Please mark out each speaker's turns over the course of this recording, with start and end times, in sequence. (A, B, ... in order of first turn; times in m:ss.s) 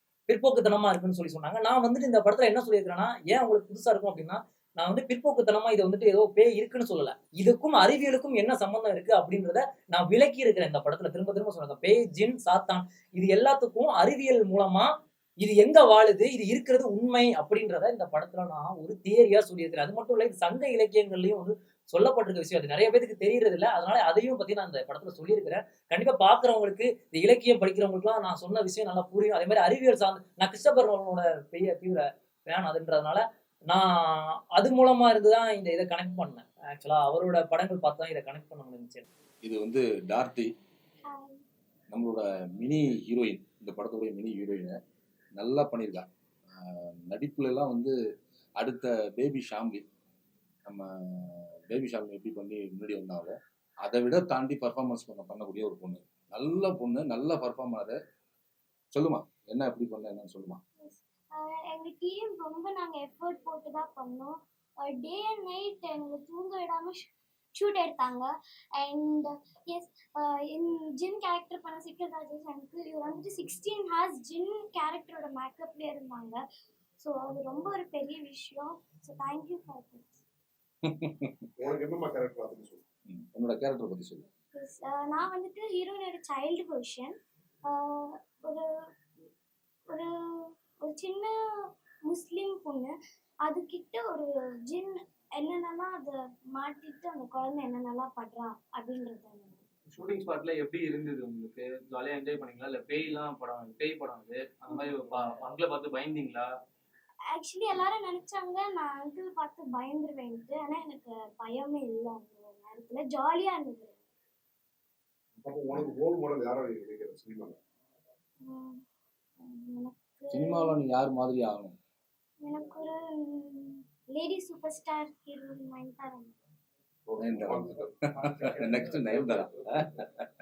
0:00.3-0:39.0 A
0:39.4-0:40.5 B
0:41.0-0:41.4 C
0:41.9-0:44.8 B
0:45.4-0:46.0 B
0:46.6-0:47.9 B
0:48.6-0:49.8 B
0:50.6-0:58.0 B
0:58.9-1:00.6 B
1:00.8-1:16.4 C
1:17.0-1:20.2 C
1:20.8-1:21.3 B
1:21.6-1:22.8 D
1:23.1-1:24.2 B
1:24.5-1:27.2 C
1:27.7-1:28.7 C
1:29.9-1:31.3 C
1:32.1-1:32.9 C
1:33.4-1:39.6 C
1:39.9-1:46.5 E
1:44.7-1:45.2 C
1:47.3-1:54.0 C
1:55.4-1:57.6 D
1:58.4-1:58.8 C
1:59.4-2:00.7 C
2:00.3-2:01.7 B
2:02.4-2:06.4 C
2:07.0-2:09.6 D
2:07.2-2:10.3 B